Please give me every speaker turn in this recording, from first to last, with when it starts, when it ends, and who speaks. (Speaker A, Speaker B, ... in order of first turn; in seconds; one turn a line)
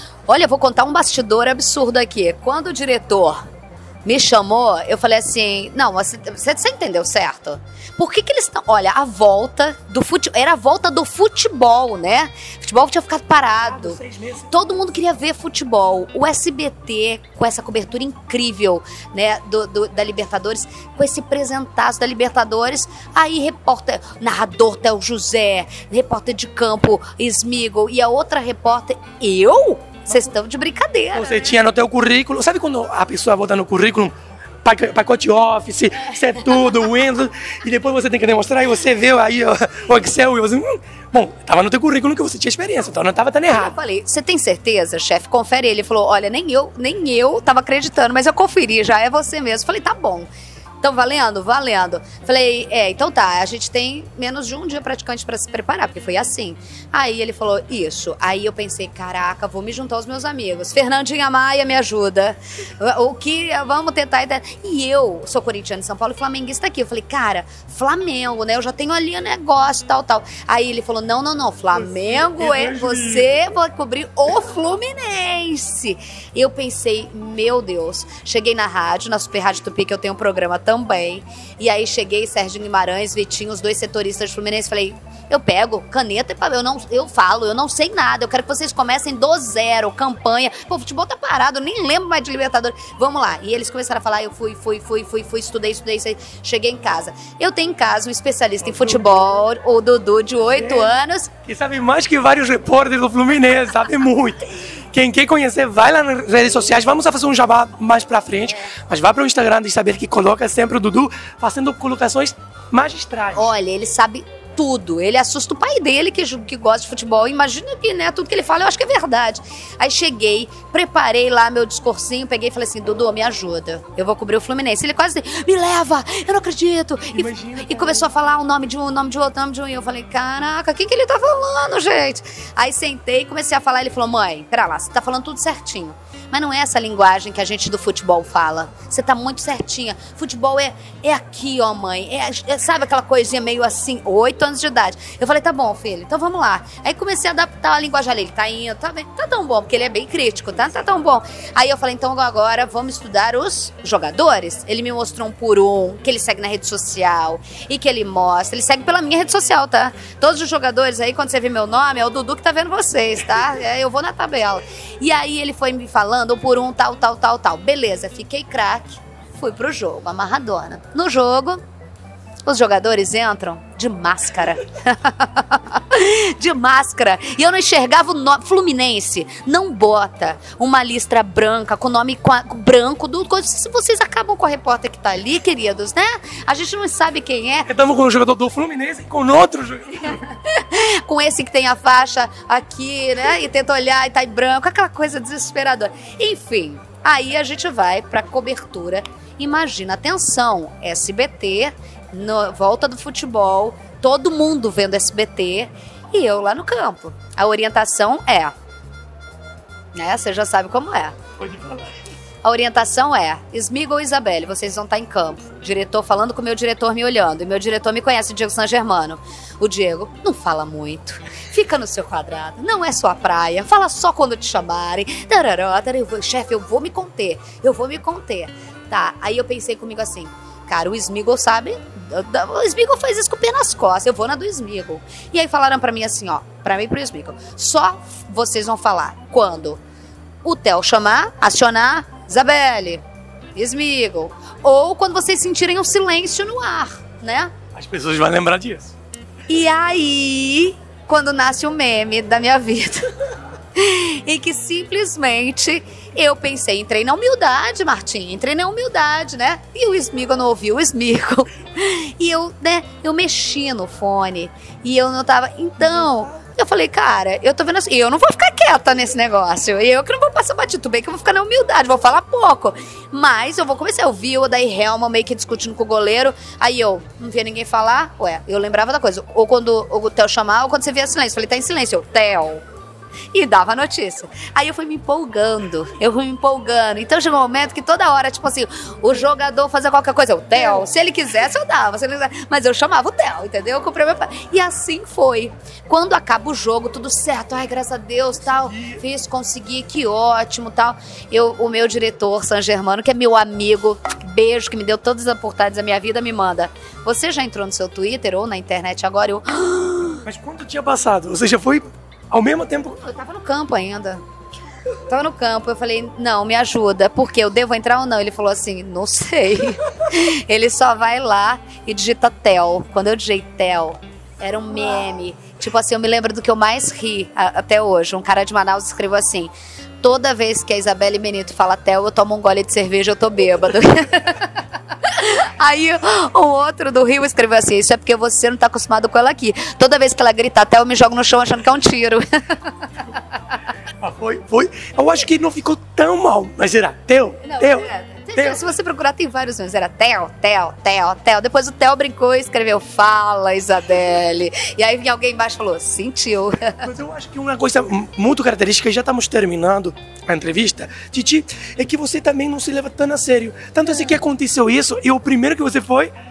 Speaker A: 0.3-3.4
Speaker A: 4.0-14.0
Speaker B: 13.6-14.8
Speaker A: 14.5-31.5
Speaker B: 31.1-43.7
Speaker A: 43.5-50.3
Speaker A: 50.8-101.3
Speaker B: 71.7-73.4
Speaker B: 98.6-99.4
Speaker B: 100.5-113.5
Speaker A: 113.3-171.6
Speaker B: 127.1-128.1
Speaker A: 172.4-187.7
Speaker B: 187.7-190.2
Speaker A: 190.2-208.5
Speaker A: 209.9-211.2
Speaker B: 211.4-211.9
Speaker A: 212.4-239.8
Speaker A: 240.4-243.0
Speaker A: 243.6-247.5
Speaker B: 247.8-248.9
Speaker A: 249.5-253.1
Speaker A: 253.8-282.6
Speaker B: 265.8-266.3
Speaker A: 283.3-310.2
Speaker B: 298.7-299.0
Speaker B: 310.2-313.0
Speaker A: 313.0-314.2
Speaker A: 315.1-343.1
Speaker B: 344.0-348.6
Speaker A: 347.4-356.8
Speaker B: 356.8-366.1